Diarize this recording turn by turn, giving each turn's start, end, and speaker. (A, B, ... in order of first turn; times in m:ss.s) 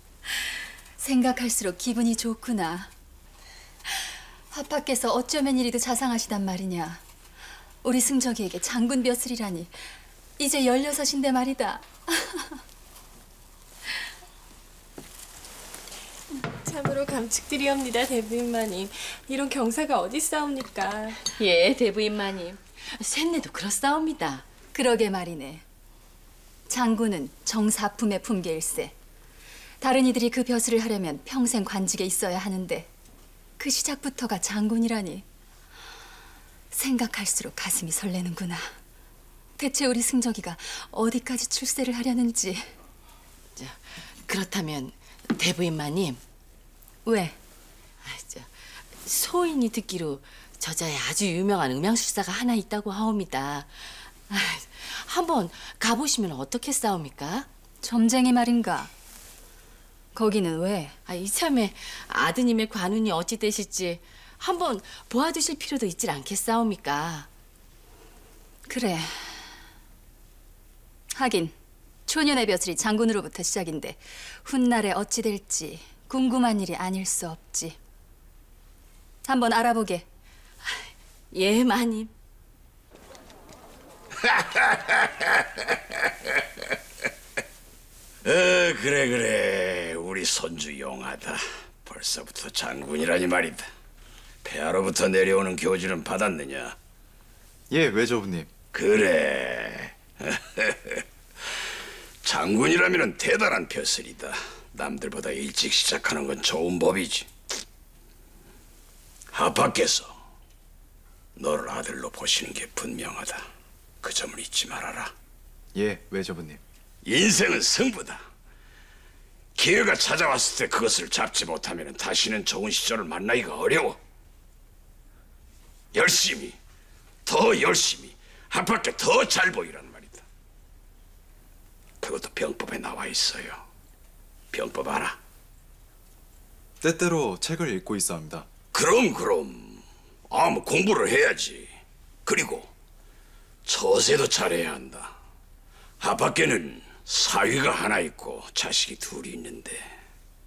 0:01.0-0:02.9 A
0:04.5-0:07.0 A
0:07.8-0:09.7 A
0:10.4-0:12.6 A
0:16.6-0:21.2 B
0:21.2-0:24.4 C
0:24.7-0:25.6 A
0:26.7-0:28.9 A
0:29.8-0:32.9 A
0:33.6-0:35.2 A
0:36.7-0:38.7 A
0:39.6-0:42.7 A
0:43.6-0:46.2 C
0:47.0-0:47.4 A
0:48.0-0:57.5 C
0:57.8-0:58.9 A
1:00.1-1:01.0 A
1:01.0-1:07.3 C
1:08.7-1:09.4 A
1:11.1-1:11.5 A
1:12.1-1:17.8 A
1:19.2-1:20.0 A
1:21.3-1:22.1 C
1:24.2-1:25.3 D
1:28.2-1:33.6 D
1:34.4-1:36.8 D
1:37.7-1:38.5 E
1:38.7-1:41.0 D
1:42.2-1:47.3 D
1:49.3-1:50.2 D
1:51.4-1:53.4 D
1:54.0-1:55.1 D
1:55.7-1:56.6 E
1:57.0-1:58.2 D
1:59.6-2:04.0 D
2:05.9-2:06.6 D
2:07.2-2:10.2 D
2:12.0-2:13.6 D
2:14.5-2:15.2 D
2:16.8-2:18.5 E
2:18.7-2:21.7 D
2:22.2-2:22.7 D
2:23.6-2:25.2 D
2:26.0-2:29.9 D